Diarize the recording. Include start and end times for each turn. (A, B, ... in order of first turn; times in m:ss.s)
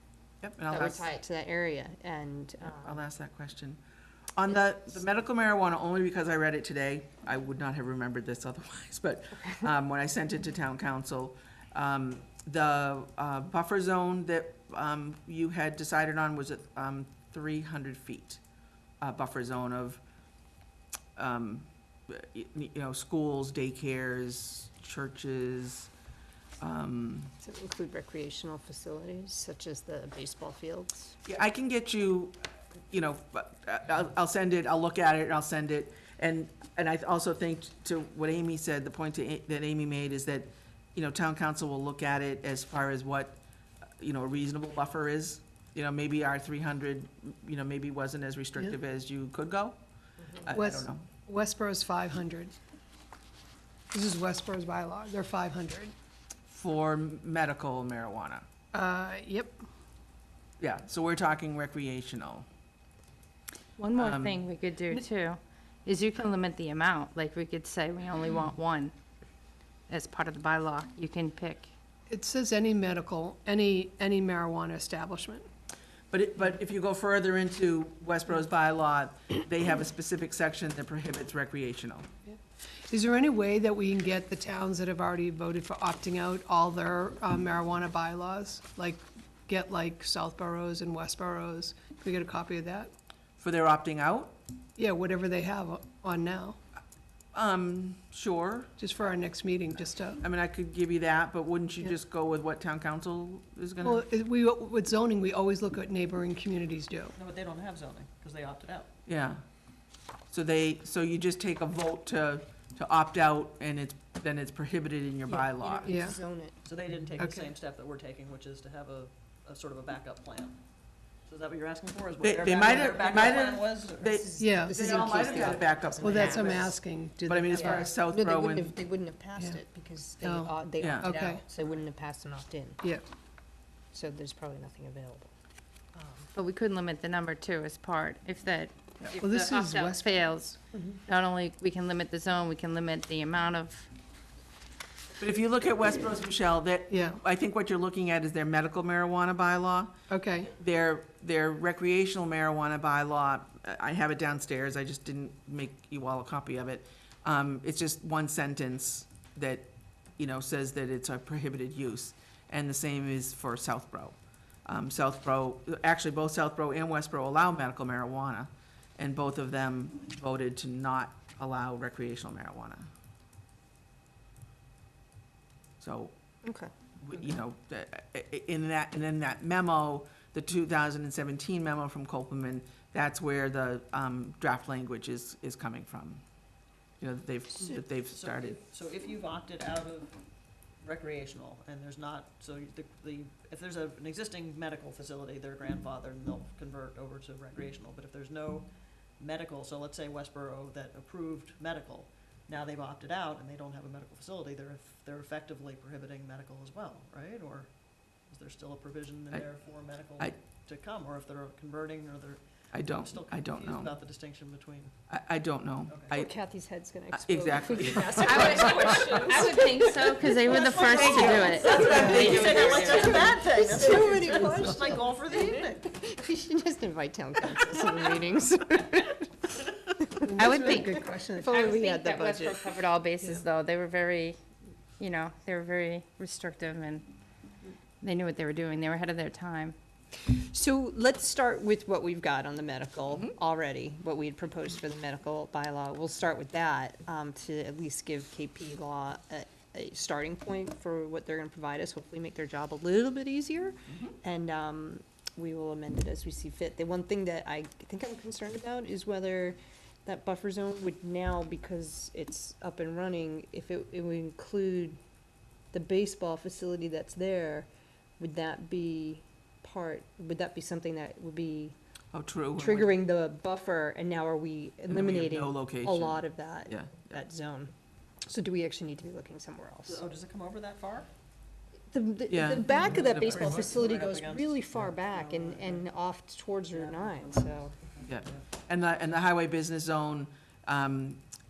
0:00.4-0:01.0 A
0:00.7-0:03.0 B
0:02.8-0:03.8 A
0:04.4-0:18.4 A
0:19.0-0:20.0 A
0:21.2-0:25.9 A
0:26.6-0:27.3 A
0:27.4-0:31.1 B
0:31.2-0:32.4 A
0:32.9-0:43.4 A
0:44.0-0:49.8 A
0:50.4-0:51.0 A
0:50.5-0:52.6 C
0:53.9-0:55.9 C
0:56.5-0:58.4 A
0:58.7-0:59.6 C
1:00.6-1:02.4 A
1:03.8-1:08.9 D
1:04.0-1:04.4 A
1:09.9-1:11.7 D
1:12.1-1:15.4 C
1:16.1-1:22.1 A
1:22.9-1:32.9 C
1:33.4-1:34.4 A
1:34.8-1:36.6 C
1:37.3-1:38.7 A
1:38.8-1:40.2 C
1:40.2-1:44.0 A
1:43.8-1:47.1 C
1:47.1-1:48.9 E
1:49.1-1:49.4 A
1:50.3-1:55.9 A
1:55.3-1:56.6 B
1:55.8-1:56.2 C
1:56.6-2:00.6 E
1:57.2-1:57.4 C
2:01.2-2:04.2 E
2:02.2-2:06.7 A
2:04.1-2:06.7 B
2:04.4-2:05.4 C
2:06.0-2:07.9 C
2:07.2-2:08.7 A
2:07.5-2:12.8 B
2:10.2-2:11.4 C
2:10.8-2:11.1 A
2:13.9-2:15.3 B
2:15.9-2:16.3 B
2:16.3-2:23.9 D
2:19.2-2:20.2 C
2:20.7-2:21.0 B
2:25.2-2:29.9 A
2:26.9-2:27.2 C
2:30.1-2:30.5 C
2:30.5-2:52.9 A
2:55.8-2:56.1 A
2:56.4-2:56.7 B
2:57.0-3:06.2 A
3:07.0-3:08.6 A
3:08.1-3:10.1 E
3:10.8-3:18.7 E
3:19.2-3:27.7 E
3:28.3-3:34.9 E
3:32.7-3:33.9 A
3:35.1-3:36.3 A
3:35.9-3:36.2 E
3:36.1-3:39.9 B
3:37.1-3:39.3 A
3:38.2-3:43.3 D
3:39.1-3:39.5 E
3:40.4-3:45.9 E
3:40.8-3:42.9 A
3:41.8-3:50.8 B
3:41.9-3:42.4 C
3:50.2-3:51.6 C
3:50.4-3:54.4 D
3:51.4-3:52.7 B
3:55.0-3:57.1 D
3:58.0-3:59.7 D
4:00.2-4:25.0 B
4:25.7-4:31.7 B
4:32.1-4:33.0 A
4:32.6-4:37.7 B
4:34.9-4:37.2 A
4:38.2-4:40.0 B
4:39.8-4:41.1 E
4:41.9-4:47.7 B
4:42.3-4:43.6 A
4:42.7-4:45.9 E
4:46.7-4:48.4 E
4:48.0-4:51.2 A